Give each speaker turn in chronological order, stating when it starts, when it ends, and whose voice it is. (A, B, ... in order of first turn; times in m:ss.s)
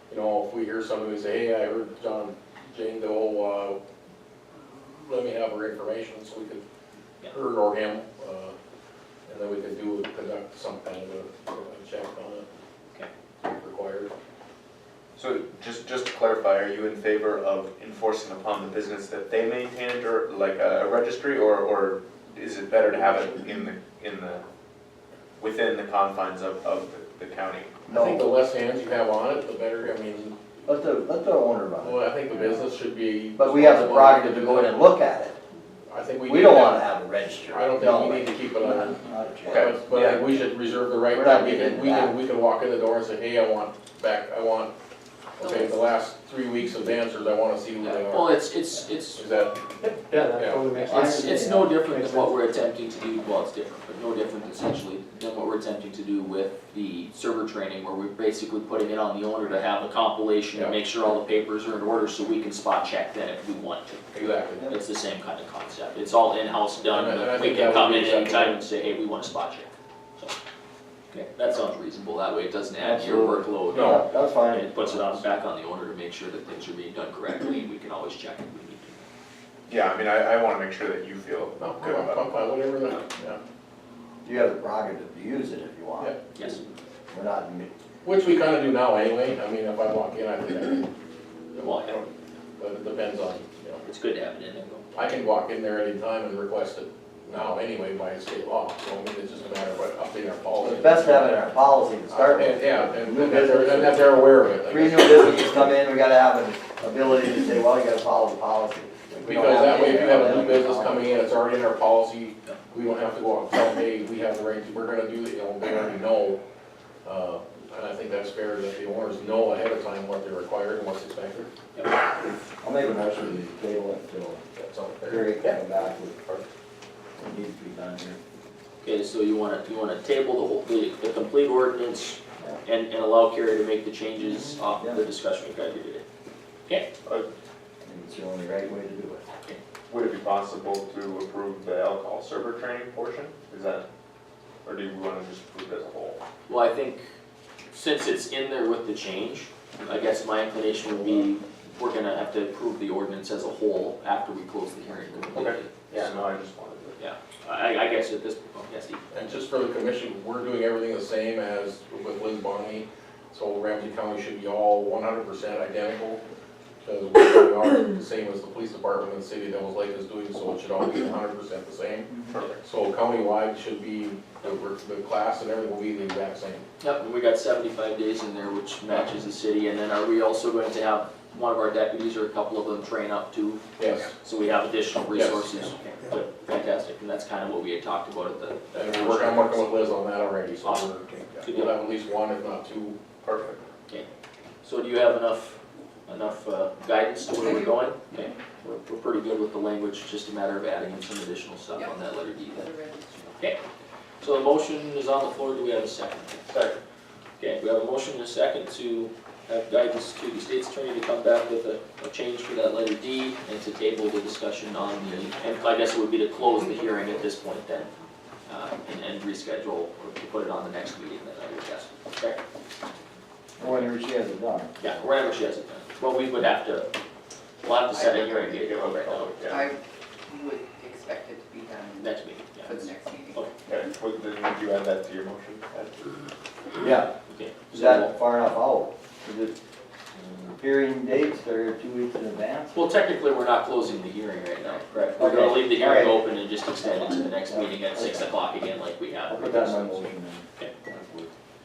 0:00.1-0:03.8 A
0:04.8-0:06.6 A
0:07.2-0:08.6 A
0:09.3-0:12.5 A
0:13.4-0:14.1 A
0:15.1-0:24.4 B
0:25.4-0:27.8 B
0:27.9-0:28.3 C
0:27.9-0:30.4 A
0:30.6-0:32.6 C
0:31.8-0:34.9 A
0:33.4-0:35.4 C
0:35.9-0:36.9 A
0:36.3-0:39.9 C
0:37.5-0:39.0 A
0:39.5-0:40.3 B
0:39.5-0:44.7 A
0:41.1-0:42.2 C
0:45.4-0:48.3 A
0:47.9-0:49.3 D
0:49.1-0:49.6 A
0:50.1-0:52.3 E
0:50.3-0:50.6 A
0:50.8-0:51.7 C
0:50.8-1:10.3 D
1:04.1-1:04.7 A
1:06.9-1:08.6 A
1:11.1-1:19.1 D
1:12.8-1:15.2 C
1:13.7-1:14.0 A
1:19.7-1:22.3 B
1:21.6-1:23.4 A
1:24.2-1:26.2 C
1:26.3-1:26.6 D
1:27.1-1:27.7 C
1:28.0-1:30.9 A
1:31.5-1:33.8 A
1:31.6-1:32.0 D
1:33.8-1:34.8 D
1:34.9-1:41.4 A
1:40.6-1:51.2 C
1:42.1-1:45.5 A
1:49.2-1:56.4 A
1:57.0-2:01.5 A
2:02.6-2:04.4 C
2:04.5-2:05.6 A
2:05.0-2:06.2 C
2:07.2-2:08.2 C
2:08.8-2:16.0 D
2:14.2-2:15.0 C
2:17.8-2:19.3 C
2:19.9-2:23.9 B
2:24.6-2:26.2 B
2:26.5-2:27.0 D
2:27.7-2:36.1 D
2:35.3-2:37.0 B
2:37.0-2:39.1 D
2:39.1-2:46.2 A
2:46.8-2:56.6 A
2:52.2-2:52.6 B
2:56.8-3:09.7 D
3:03.8-3:04.1 A
3:05.1-3:05.5 A
3:08.7-3:13.0 A
3:10.6-3:10.9 D
3:11.4-3:11.8 D
3:13.2-3:13.6 B
3:14.6-3:22.7 D
3:17.3-3:17.8 F
3:21.7-3:23.3 F
3:24.2-3:26.4 D
3:26.5-3:26.8 B
3:27.4-3:37.9 D
3:38.4-3:42.4 D
3:43.6-3:44.7 C
3:44.8-3:46.9 D
3:47.6-3:49.3 D
3:47.9-3:49.7 B
3:49.5-3:53.5 F
3:52.0-3:53.5 D
3:53.7-3:56.2 B
3:56.8-3:57.1 C
3:57.3-3:58.1 D
3:57.7-3:59.5 C
4:00.2-4:02.9 C
4:02.7-4:10.7 D
4:05.2-4:06.3 C
4:06.8-4:08.4 C
4:09.3-4:11.3 C